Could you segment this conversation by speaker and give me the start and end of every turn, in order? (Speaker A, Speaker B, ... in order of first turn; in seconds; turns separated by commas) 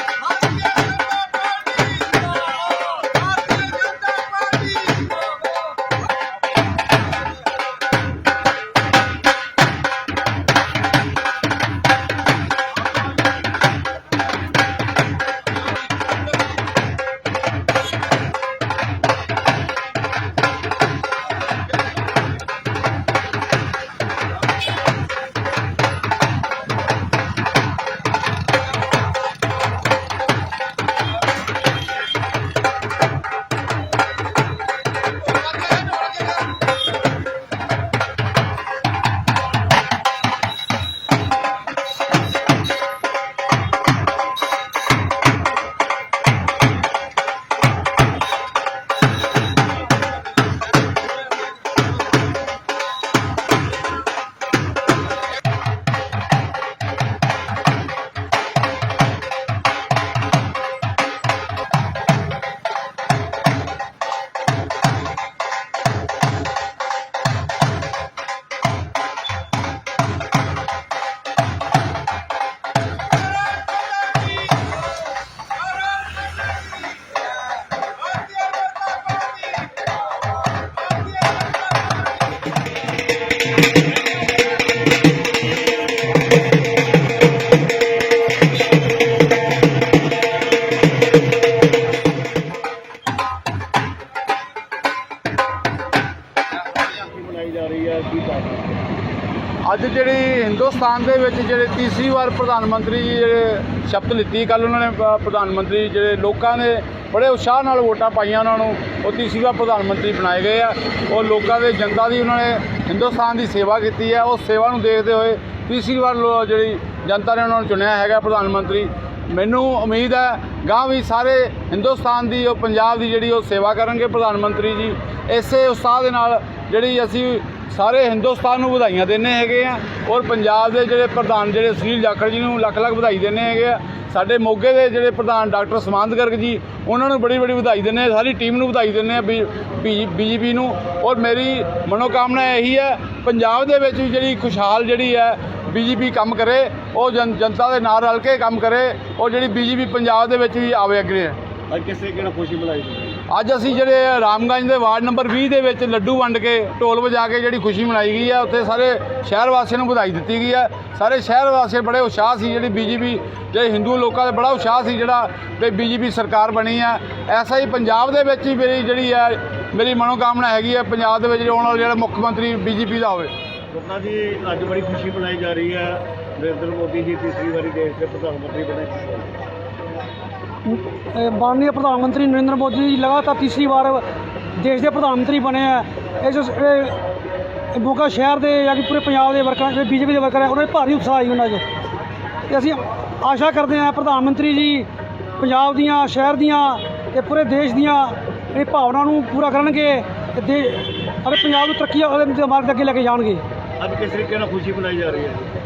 Speaker A: 1.7-2.2, Speaker A: 3.5-5.0, Speaker B: 96.9-98.8, Speaker A: 99.6-151.4, Speaker B: 151.7-153.2, Speaker A: 153.3-173.3, Speaker B: 173.7-179.4, Speaker C: 180.7-187.0, Speaker C: 187.7-191.7, Speaker C: 192.5-203.4, Speaker B: 203.8-205.5